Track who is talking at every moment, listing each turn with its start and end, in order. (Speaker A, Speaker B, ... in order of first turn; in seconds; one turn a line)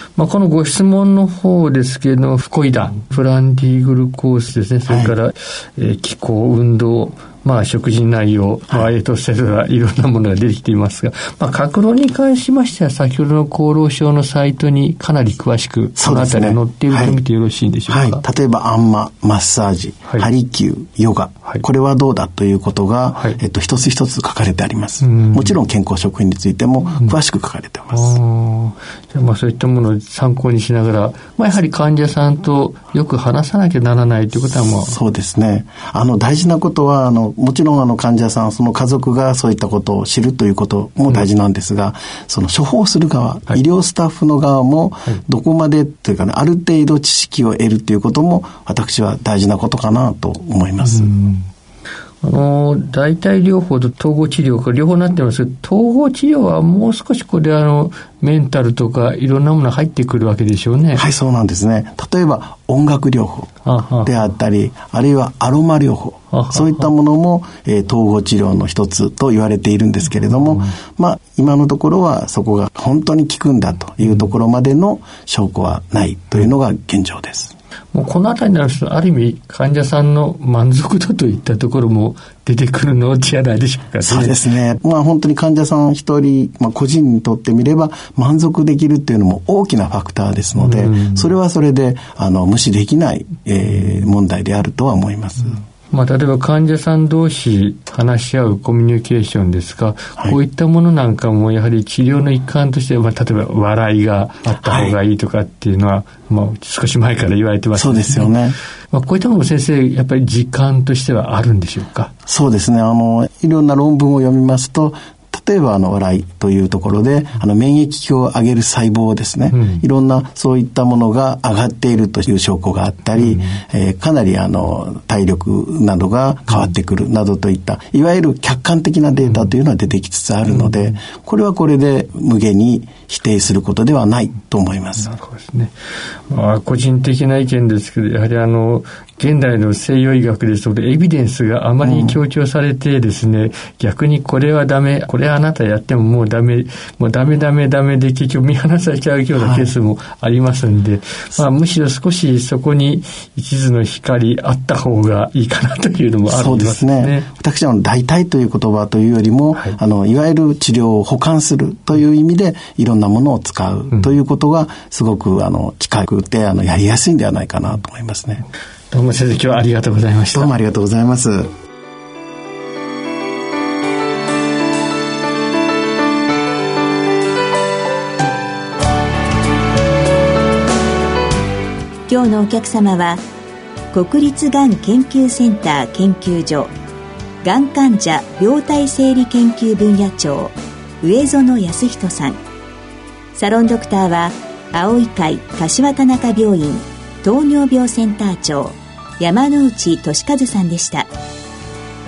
Speaker A: 0.2-18.2
Speaker B: 4.9-5.2
Speaker B: 16.0-17.2
Speaker B: 17.9-28.2
Speaker A: 25.0-25.6
Speaker A: 27.9-35.0
Speaker B: 34.7-51.1
Speaker A: 50.8-51.5
Speaker A: 52.2-61.1
Speaker B: 61.0-63.5
Speaker A: 63.6-64.1
Speaker B: 64.0-77.5
Speaker A: 66.3-66.9
Speaker A: 77.9-84.4
Speaker B: 84.0-95.6
Speaker A: 90.6-91.3
Speaker A: 95.5-108.4
Speaker B: 104.7-105.0
Speaker B: 107.8-108.6
Speaker A: 108.9-112.1
Speaker B: 112.3-135.1
Speaker A: 119.5-119.8
Speaker A: 123.2-123.5
Speaker A: 129.3-129.5
Speaker A: 130.5-130.9
Speaker A: 135.0-135.7
Speaker A: 136.3-157.3
Speaker B: 141.8-142.2
Speaker B: 149.4-149.7
Speaker B: 156.3-168.4
Speaker A: 168.9-170.5
Speaker B: 170.3-171.5
Speaker C: 182.1-183.2
Speaker C: 183.9-186.7
Speaker C: 187.4-192.4
Speaker C: 193.3-201.1